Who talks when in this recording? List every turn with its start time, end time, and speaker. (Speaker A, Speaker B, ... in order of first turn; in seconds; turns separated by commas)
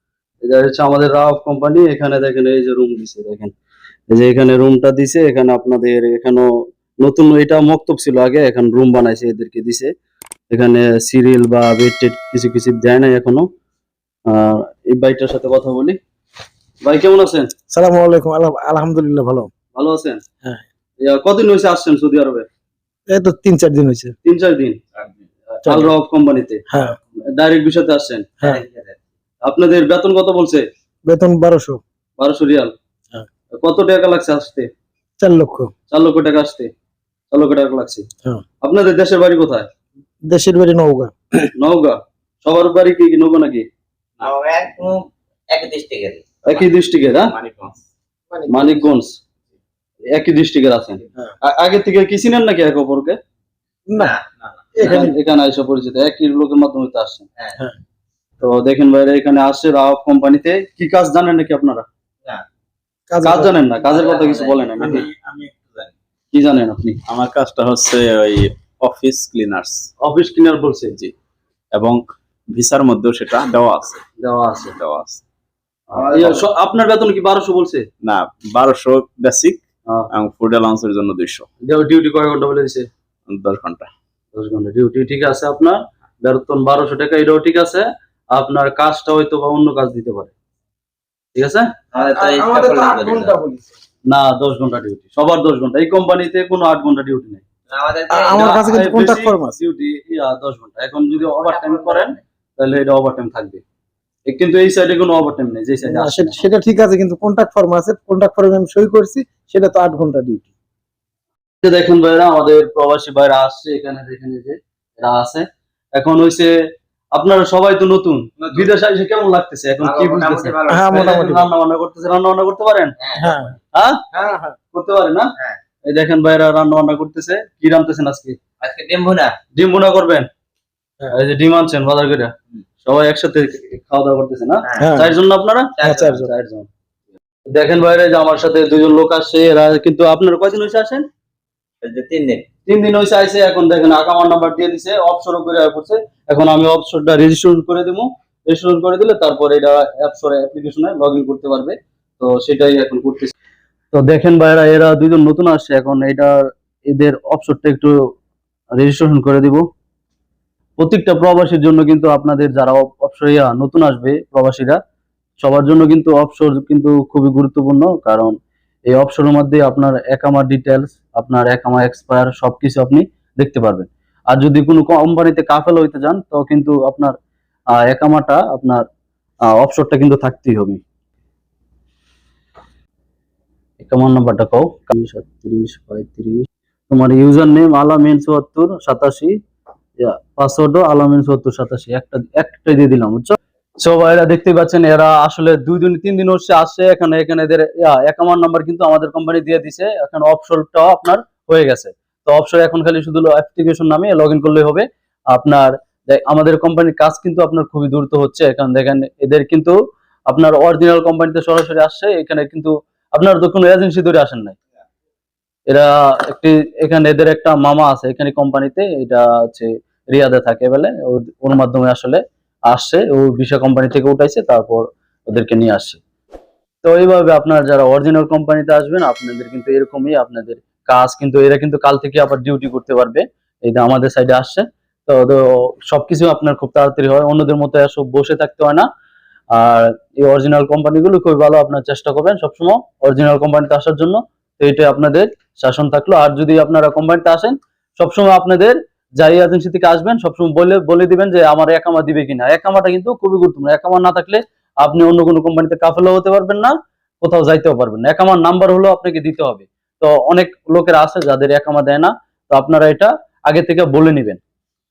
Speaker A: 0.5-3.5, Speaker A: 4.1-6.5, Speaker A: 7.0-9.9, Speaker A: 10.5-13.5, Speaker A: 14.3-16.0, Speaker A: 16.9-17.5, Speaker B: 17.7-19.5, Speaker A: 19.8-20.2, Speaker A: 21.0-22.5, Speaker B: 23.1-24.1, Speaker A: 24.2-24.8, Speaker A: 25.6-26.6, Speaker B: 25.7-25.9, Speaker B: 26.7-27.0, Speaker A: 27.3-28.3, Speaker C: 28.4-29.0, Speaker A: 29.4-30.7, Speaker B: 31.1-31.8, Speaker A: 32.2-32.7, Speaker A: 33.6-34.7, Speaker B: 35.2-35.7, Speaker A: 35.9-36.7, Speaker A: 37.3-38.1, Speaker A: 38.6-39.7, Speaker B: 40.2-41.1, Speaker A: 41.6-43.7, Speaker C: 44.2-46.3, Speaker A: 46.5-47.3, Speaker D: 47.3-47.8, Speaker B: 48.3-48.8, Speaker A: 48.5-49.2, Speaker A: 50.1-53.2, Speaker B: 53.9-54.1, Speaker C: 54.0-54.3, Speaker B: 54.8-55.2, Speaker A: 54.8-57.2, Speaker A: 58.4-61.9, Speaker B: 63.1-63.5, Speaker A: 63.2-65.1, Speaker C: 63.8-65.9, Speaker D: 65.0-65.5, Speaker A: 66.3-67.0, Speaker D: 67.1-69.9, Speaker A: 70.0-71.0, Speaker D: 71.7-74.0, Speaker A: 74.2-74.8, Speaker D: 74.7-75.2, Speaker A: 75.9-77.8, Speaker D: 78.0-81.5, Speaker A: 81.7-82.9, Speaker D: 83.3-83.9, Speaker A: 84.3-90.3, Speaker A: 91.4-91.7, Speaker C: 91.9-93.3, Speaker B: 92.0-93.7, Speaker A: 94.1-97.4, Speaker C: 97.7-98.6, Speaker B: 98.1-99.6, Speaker A: 98.3-103.6, Speaker C: 101.5-102.1, Speaker A: 104.3-106.4, Speaker B: 105.8-110.5, Speaker A: 111.6-116.5, Speaker A: 117.1-122.9, Speaker C: 118.4-118.7, Speaker C: 119.8-120.9, Speaker B: 120.7-121.5, Speaker C: 123.0-123.5, Speaker B: 123.2-123.5, Speaker B: 124.1-124.5, Speaker A: 124.7-125.3, Speaker A: 125.9-128.4, Speaker C: 128.6-129.4, Speaker A: 129.6-130.3, Speaker A: 131.1-132.3, Speaker A: 132.8-136.7, Speaker B: 134.8-135.2, Speaker C: 135.8-136.1, Speaker B: 135.8-136.3, Speaker A: 137.5-141.1, Speaker C: 141.8-142.4, Speaker A: 142.7-153.3, Speaker A: 153.9-157.9, Speaker A: 158.8-159.6, Speaker A: 160.8-164.8, Speaker A: 165.4-168.3, Speaker A: 168.9-177.2, Speaker A: 177.8-178.8, Speaker A: 179.5-180.8, Speaker A: 183.8-189.4, Speaker A: 190.0-209.8, Speaker A: 210.3-214.6, Speaker A: 215.7-226.0, Speaker A: 226.8-238.9, Speaker A: 239.5-264.4